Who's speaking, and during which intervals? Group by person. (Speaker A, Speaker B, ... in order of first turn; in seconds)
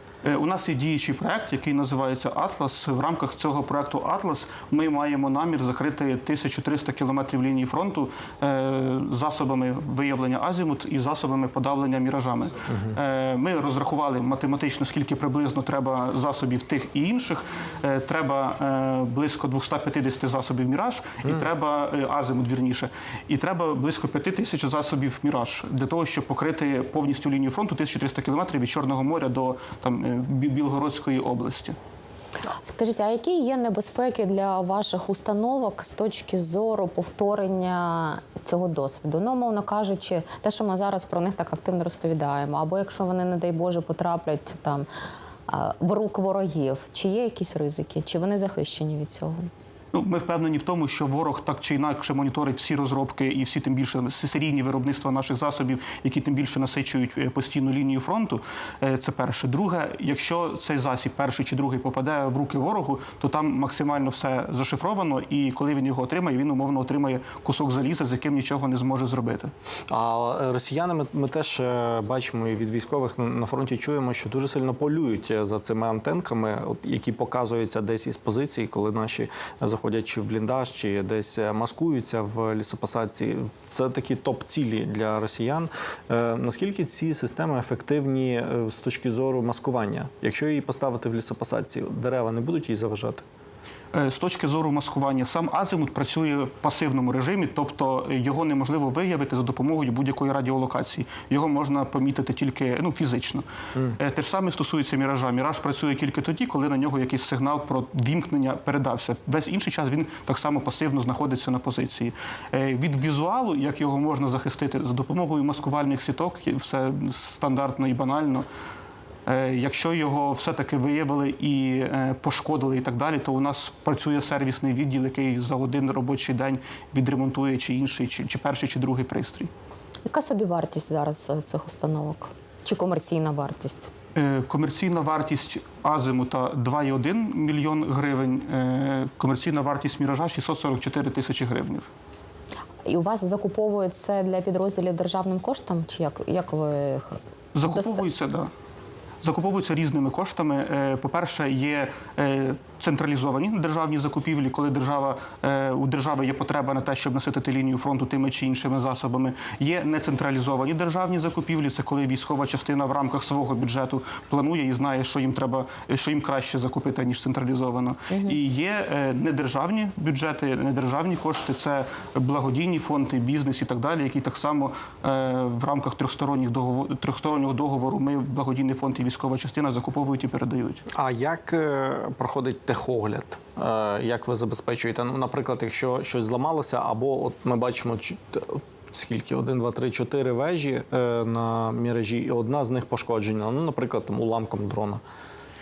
Speaker A: 0.2-31.8, 49.9-69.5, 93.9-118.5, 119.2-129.5, 134.1-141.9, 147.5-148.5, 149.2-180.8
Speaker B: 12.7-12.9, 69.9-93.2, 180.9-195.0
Speaker C: 32.6-44.9, 45.5-49.5, 130.1-133.9, 142.8-148.0, 168.1-168.4